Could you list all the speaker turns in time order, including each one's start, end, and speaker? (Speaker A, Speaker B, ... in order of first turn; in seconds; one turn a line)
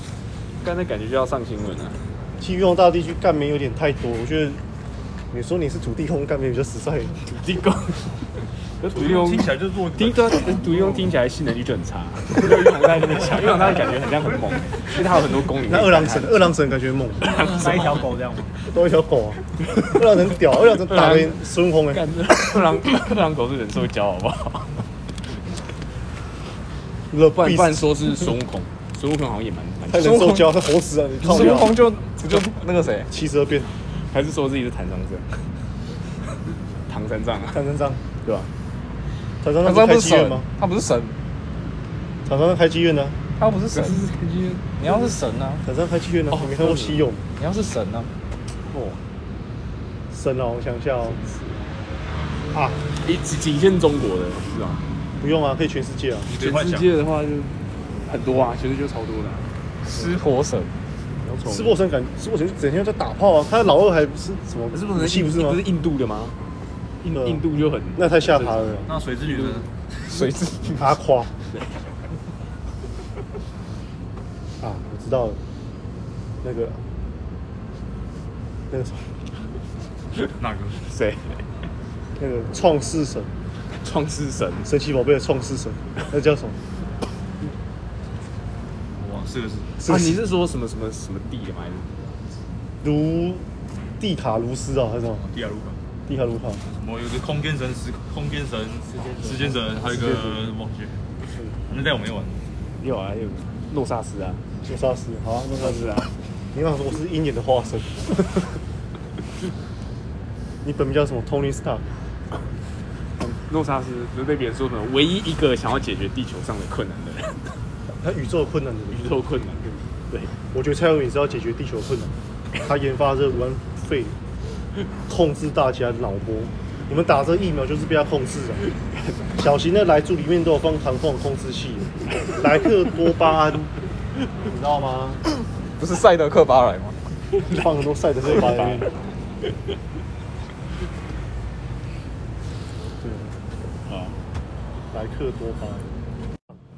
Speaker A: 0.6-2.0
Speaker B: 2.4-4.6
Speaker B: 5.3-7.2
Speaker A: 7.2-16.5
Speaker C: 8.9-11.1
Speaker B: 15.7-17.3
Speaker A: 17.2-18.0
Speaker C: 17.4-18.5
Speaker B: 18.7-19.4
Speaker B: 19.9-22.0
Speaker A: 20.9-24.8
Speaker B: 27.1-27.6
Speaker A: 27.3-30.4
Speaker B: 29.9-31.8
Speaker D: 30.0-30.6
Speaker D: 31.2-33.2
Speaker A: 31.3-31.7
Speaker B: 33.1-33.7
Speaker A: 33.9-35.5
Speaker A: 36.9-37.6
Speaker B: 37.5-38.0
Speaker A: 38.2-38.5
Speaker B: 39.4-40.5
Speaker D: 39.6-41.2
Speaker B: 42.2-43.2
Speaker D: 43.4-44.0
Speaker A: 43.7-44.7
Speaker D: 44.8-46.8
Speaker B: 45.6-47.2
Speaker A: 46.3-47.1
Speaker D: 47.3-48.1
Speaker A: 48.6-49.0
Speaker B: 50.1-51.1
Speaker A: 51.0-51.6
Speaker B: 52.5-52.8
Speaker A: 53.0-54.8
Speaker B: 55.2-56.3
Speaker C: 56.2-56.9
Speaker A: 56.3-59.5
Speaker D: 59.8-60.7
Speaker A: 61.2-61.7
Speaker B: 61.5-65.6
Speaker A: 64.7-66.3
Speaker A: 67.0-69.6
Speaker B: 68.0-68.9
Speaker C: 68.9-70.2
Speaker D: 70.1-71.0
Speaker B: 70.8-71.3
Speaker B: 74.6-75.4
Speaker B: 76.4-76.8
Speaker B: 78.7-79.1
Speaker C: 80.4-80.8
Speaker A: 80.9-81.4
Speaker B: 82.2-83.3
Speaker A: 83.8-84.7
Speaker B: 84.7-86.6
Speaker C: 89.0-89.8
Speaker A: 89.8-91.9
Speaker B: 92.8-93.4
Speaker B: 94.0-95.3
Speaker C: 95.2-95.8
Speaker B: 96.1-96.6
Speaker C: 96.7-101.0
Speaker C: 101.7-102.4
Speaker A: 102.8-104.4
Speaker B: 104.6-105.8
Speaker A: 105.4-106.1
Speaker B: 106.5-107.9
Speaker B: 110.6-111.8
Speaker A: 113.2-117.6
Speaker B: 118.0-119.0
Speaker A: 118.9-120.3
Speaker B: 120.5-122.1
Speaker B: 122.6-124.1
Speaker B: 125.1-128.6
Speaker B: 129.4-133.7
Speaker B: 134.5-135.2
Speaker D: 135.8-137.0
Speaker B: 137.6-138.9
Speaker B: 143.0-143.3
Speaker A: 143.9-144.2
Speaker B: 144.9-145.8